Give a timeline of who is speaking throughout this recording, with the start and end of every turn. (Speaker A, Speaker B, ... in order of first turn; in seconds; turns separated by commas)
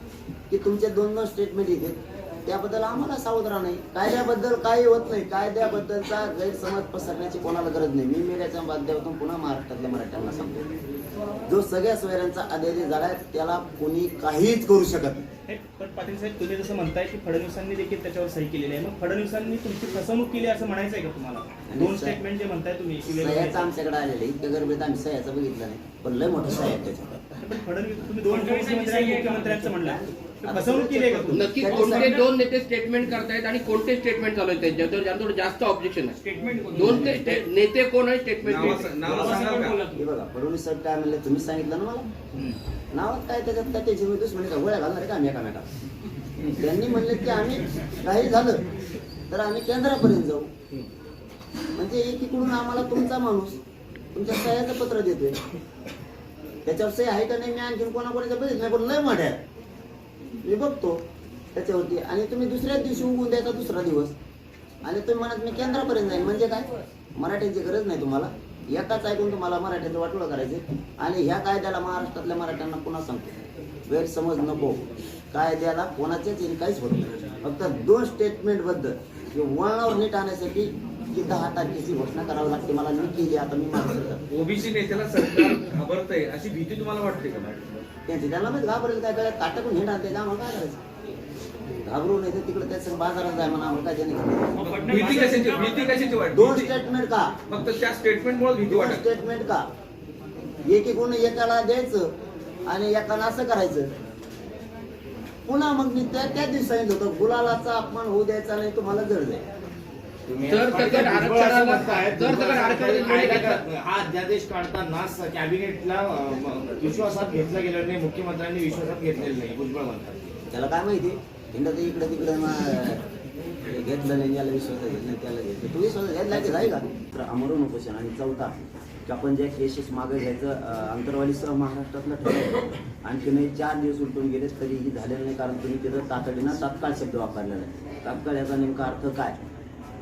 Speaker A: 0.5-10.7, Speaker A: 11.5-15.3, Speaker B: 15.5-23.7, Speaker A: 21.7-22.2, Speaker A: 23.1-27.2, Speaker B: 27.4-32.0, Speaker C: 28.3-30.0, Speaker A: 29.9-32.2, Speaker D: 31.3-36.2, Speaker C: 36.2-37.2, Speaker D: 36.7-39.0, Speaker E: 38.4-39.8, Speaker C: 38.5-40.0, Speaker A: 39.9-42.1, Speaker A: 42.9-45.7, Speaker A: 46.5-48.6, Speaker A: 49.3-50.5, Speaker A: 51.8-53.6, Speaker A: 54.1-55.4, Speaker A: 56.7-59.4, Speaker A: 60.4-64.2, Speaker A: 64.8-73.4, Speaker A: 73.9-84.2, Speaker E: 84.3-87.6, Speaker A: 88.1-90.8, Speaker A: 91.8-94.6, Speaker C: 94.5-96.0, Speaker E: 94.6-96.7, Speaker A: 96.3-97.4, Speaker E: 97.5-99.0, Speaker A: 98.7-99.7, Speaker A: 100.6-102.1, Speaker A: 102.7-103.9, Speaker A: 105.5-109.5, Speaker F: 110.3-120.4, Speaker D: 110.4-113.6, Speaker A: 120.5-123.0, Speaker A: 123.7-139.4